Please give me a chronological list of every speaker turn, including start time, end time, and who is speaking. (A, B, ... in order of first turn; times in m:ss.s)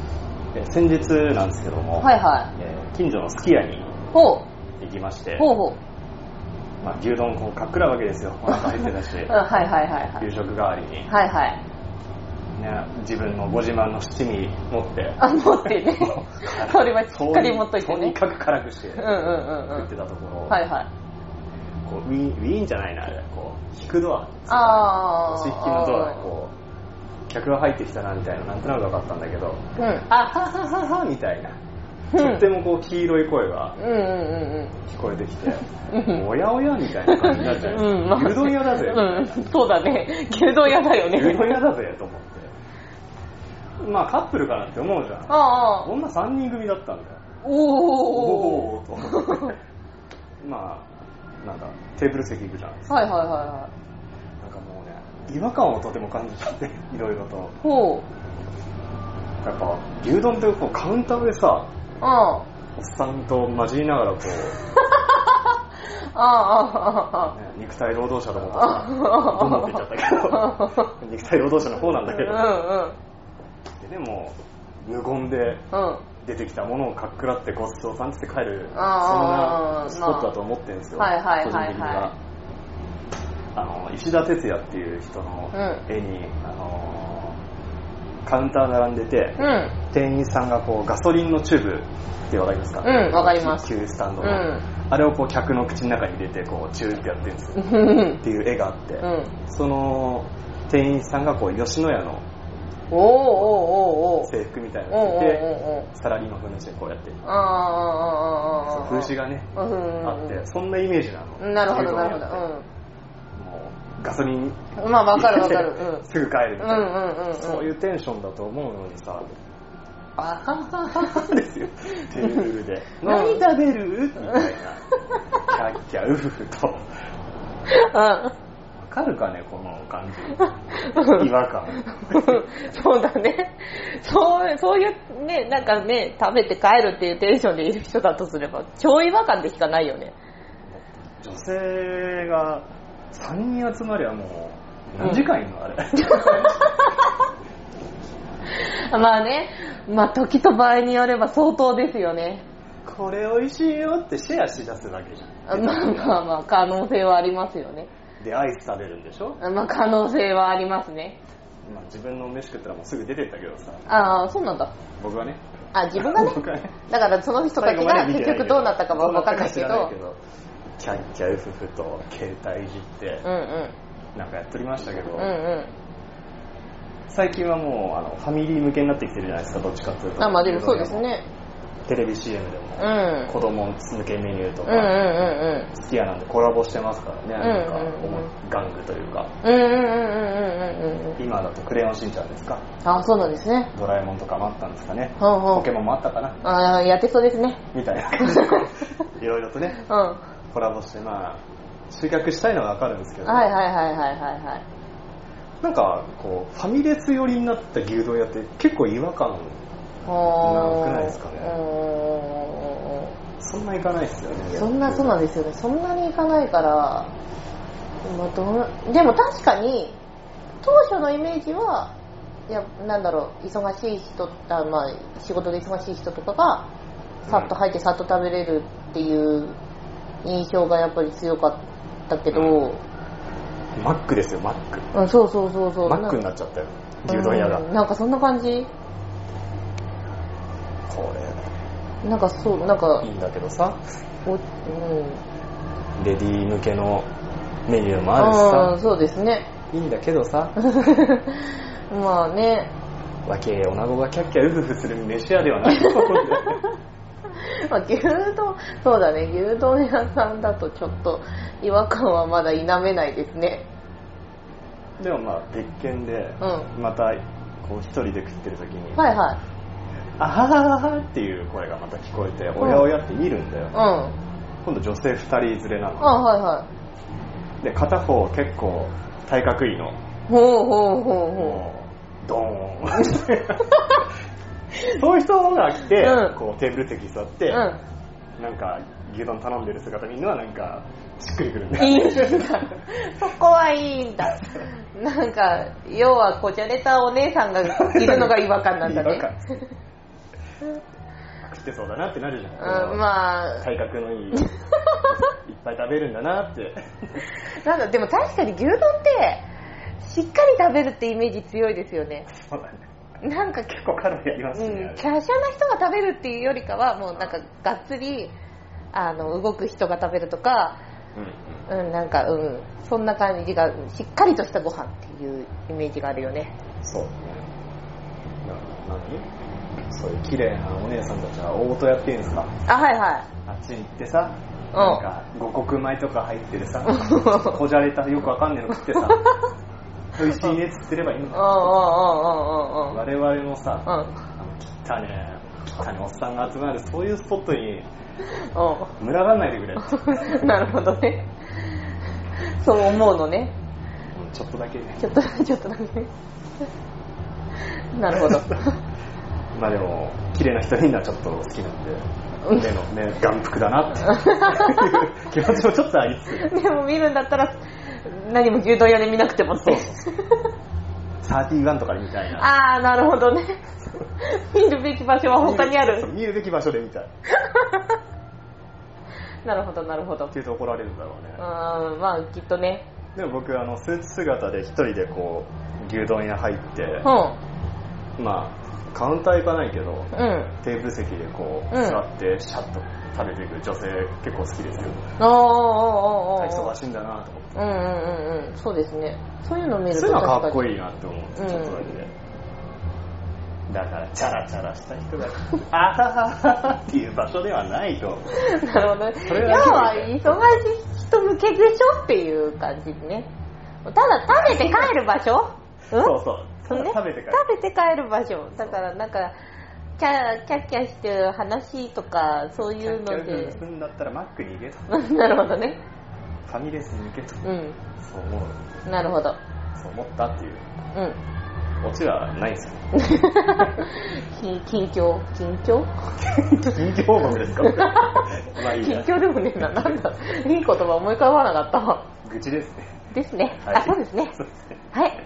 0:00.5-0:03.9 A
0:02.0-0:02.5 B
0:04.1-0:04.5 B
0:04.8-0:05.5 A
0:05.4-0:05.8 B
0:06.8-0:09.3 A
0:09.3-0:10.2 B
0:10.2-0:11.1 A
0:11.1-0:11.6 B
0:12.6-0:20.6 A
0:15.2-0:18.2 B
0:19.0-0:19.9 B
0:20.5-0:20.9 B
0:21.8-0:26.5 A
0:24.5-0:26.3 B
0:27.3-0:31.6 A
0:29.8-0:30.1 B
0:32.1-0:32.4 B
0:32.2-0:33.8 A
0:33.8-0:34.8 B
0:34.8-0:39.6 A
0:35.9-0:36.2 B
0:37.0-0:41.6 B
0:41.1-0:42.5 A
0:43.8-0:47.2 A
0:45.3-0:45.9 B
0:47.4-0:49.6 B
0:47.9-0:49.6 A
0:50.4-0:50.9 A
0:51.4-0:53.0 A
0:52.9-0:53.7 B
0:54.4-0:57.6 A
0:57.6-0:58.1 B
0:59.4-1:01.7 A
1:02.0-1:02.5 B
1:02.8-1:04.6 A
1:04.8-1:05.4 B
1:06.0-1:07.3 B
1:07.2-1:12.6 A
1:08.6-1:09.8 B
1:10.3-1:10.9 B
1:12.0-1:13.0 B
1:13.8-1:15.6 A
1:15.7-1:16.1 B
1:16.2-1:22.2 A
1:18.7-1:20.3 B
1:21.0-1:22.1 B
1:23.5-1:27.4 A
1:25.5-1:25.8 B
1:28.2-1:42.3 A
1:29.4-1:29.8 B
1:32.8-1:33.7 B
1:34.2-1:34.6 B
1:37.6-1:38.2 B
1:39.0-1:39.4 B
1:42.9-1:44.3 B
1:44.2-1:47.2 A
1:44.9-1:45.9 B
1:47.2-1:50.4 B
1:48.7-1:52.5 A
1:51.4-1:52.7 B
1:53.4-1:59.3 A
1:54.8-1:56.0 B
1:56.6-1:57.7 B
2:00.2-2:04.9 A
2:03.1-2:03.4 B
2:05.4-2:06.8 A
2:07.7-2:08.3 B
2:08.8-2:12.5 A
2:10.8-2:11.3 B
2:11.9-2:20.2 B
2:20.7-2:26.9 A
2:26.0-2:27.1 B
2:28.6-2:32.4 B
2:32.8-2:36.2 A
2:35.5-2:37.9 B
2:38.2-2:39.4 A
2:39.4-2:41.2 B
2:41.6-2:43.8 A
2:43.9-2:44.7 B
2:45.0-2:45.4 A
2:45.7-2:49.9 B
2:45.9-2:46.8 A
2:47.6-2:50.2 A
2:50.8-2:53.3 A
2:53.2-2:53.8 B
2:54.2-2:55.4 A
2:55.1-2:55.7 B
2:57.1-3:01.1 A
3:00.2-3:01.2 B
3:01.9-3:05.1 A
3:02.8-3:03.3 B
3:04.7-3:05.7 B
3:05.7-3:09.3 A
3:07.4-3:08.3 B
3:09.4-3:11.2 B
3:11.2-3:16.4 A
3:12.8-3:13.7 B
3:15.2-3:15.7 B
3:16.4-3:17.6 B
3:17.7-3:19.8 A
3:18.2-3:18.8 B
3:19.8-3:20.2 B
3:20.5-3:23.5 A
3:23.2-3:24.6 B
3:25.6-3:29.6 A
3:30.1-3:33.2 B
3:30.4-3:31.6 A
3:33.4-3:35.2 A
3:34.5-3:37.1 B
3:38.0-3:40.0 B
3:40.6-3:41.9 B
3:42.5-3:46.7 B
3:47.3-3:49.6 B
3:47.3-3:47.5 A
3:50.2-3:52.8 B
3:52.3-3:52.7 A
3:53.8-3:54.9 A
3:54.9-3:56.2 B
3:55.8-3:57.7 A
3:57.1-3:58.7 B
4:00.9-4:01.5 A
4:02.0-4:03.1 B
4:02.5-4:03.8 A
4:04.3-4:05.2 B
4:06.0-4:07.1 A
4:07.7-4:08.8 A
4:08.2-4:09.5 B
4:09.7-4:10.7 A
4:10.6-4:12.7 B
4:13.3-4:16.6 A
4:17.4-4:23.7 B
4:25.0-4:29.0 A
4:26.4-4:26.7 B
4:29.0-4:29.4 B
4:30.2-4:33.8 A
4:32.6-4:32.9 B
4:33.7-4:34.2 B
4:34.6-4:36.2 A
4:36.0-4:36.7 B
4:37.6-4:40.0 A
4:40.3-4:41.6 B
4:41.4-4:44.0 A
4:44.9-4:47.7 A
4:46.0-4:46.4 B
4:47.5-4:47.8 B
4:48.4-4:52.6 A
4:51.8-4:59.6 B
4:57.7-4:59.6 A
5:01.4-5:03.1 A
5:02.6-5:03.6 B
5:03.6-5:04.5 A
5:04.3-5:05.0 B
5:05.0-5:07.1 A
5:07.5-5:09.5 B
5:10.0-5:12.3 B
5:12.3-5:12.9 A
5:13.2-5:13.7 B
5:13.5-5:15.1 A
5:14.6-5:18.3 B
5:18.9-5:20.8 B
5:21.2-5:21.7 A
5:21.7-5:26.5 B
5:26.8-5:27.4 A
5:28.4-5:29.3 A
5:29.9-5:32.5 A
5:32.7-5:33.3 B
5:33.5-5:39.2 A
5:34.7-5:35.0 B
5:36.9-5:37.6 B
5:40.2-5:41.9 A
5:41.3-5:43.0 B
5:42.9-5:47.9 A
5:43.9-5:44.2 B
5:48.4-5:48.9 B
5:49.0-5:50.6 A
5:49.8-5:53.5 B
5:54.1-5:55.0 A
5:55.0-5:56.1 B
5:57.9-5:58.8 B
5:58.1-5:58.6 A
5:59.5-6:06.5 A
6:04.1-6:05.1 B
6:06.4-6:10.4 B
6:09.6-6:10.0 A
6:11.2-6:12.5 A
6:12.3-6:16.1 B
6:15.3-6:17.1 A
6:17.4-6:18.0 B
6:19.4-6:20.3 B
6:20.3-6:21.4 A
6:21.4-6:22.9 B
6:23.2-6:27.1 A
6:27.0-6:27.4 B
6:28.2-6:35.0 A
6:30.1-6:30.5 B
6:31.7-6:32.0 B
6:35.2-6:36.7 B
6:36.4-6:37.6 A
6:37.6-6:40.7 B
6:39.9-6:42.1 A
6:41.4-6:41.9 B
6:43.7-6:48.4 A
6:48.3-6:53.3 B
6:49.2-6:50.5 A
6:53.8-6:56.1 B
6:54.3-6:54.9 A
6:55.9-6:57.4 A
6:56.7-6:59.4 B
7:00.0-7:03.6 B
7:02.8-7:05.0 A
7:04.9-7:05.8 B
7:06.5-7:07.5 A
7:07.4-7:07.8 B
7:08.0-7:08.6 A
7:08.9-7:09.4 B
7:09.8-7:10.7 A
7:10.9-7:11.2 B
7:11.8-7:12.8 A
7:12.9-7:15.9 B
7:16.2-7:20.0 A
7:17.6-7:22.1 B
7:22.2-7:23.1 A
7:23.1-7:24.4 B
7:23.6-7:24.8 A
7:24.9-7:25.2 B